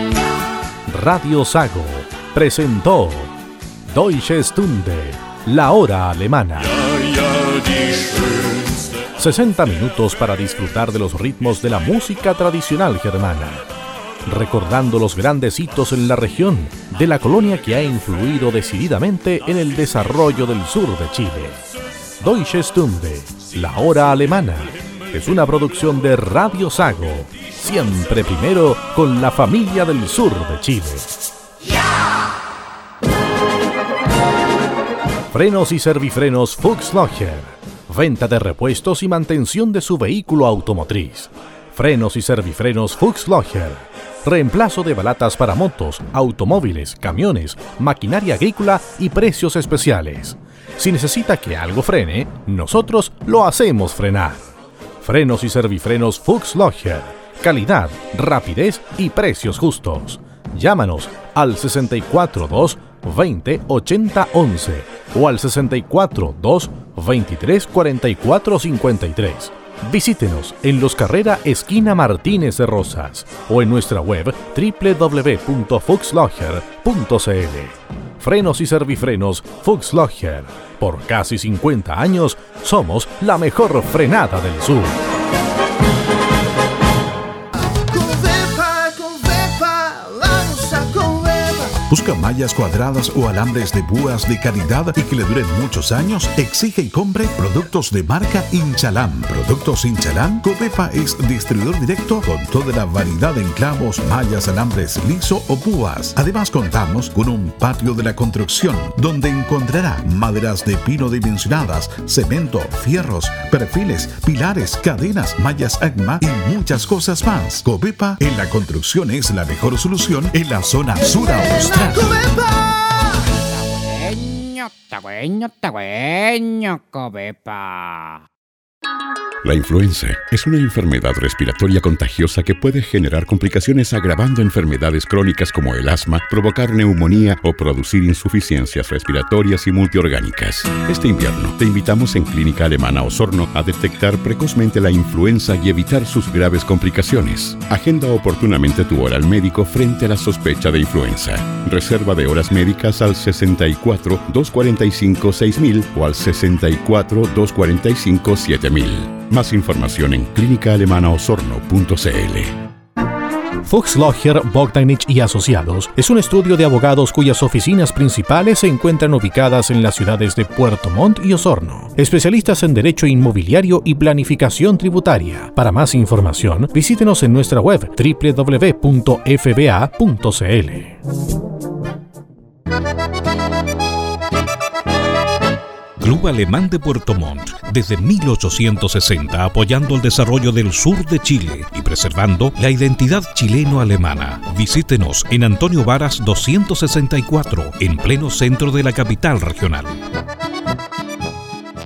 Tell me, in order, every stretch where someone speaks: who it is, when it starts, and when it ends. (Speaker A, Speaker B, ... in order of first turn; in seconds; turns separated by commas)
Speaker A: 0.9-3.3, Speaker A: 3.9-6.7, Speaker B: 6.6-9.1, Speaker A: 9.2-13.7, Speaker A: 14.2-21.6, Speaker A: 22.2-31.1, Speaker A: 35.3-85.0, Speaker C: 87.6-91.8, Speaker D: 91.9-122.2, Speaker C: 121.0-123.3, Speaker E: 123.4-128.2, Speaker F: 129.4-162.6, Speaker A: 163.6-181.0, Speaker G: 186.0-200.0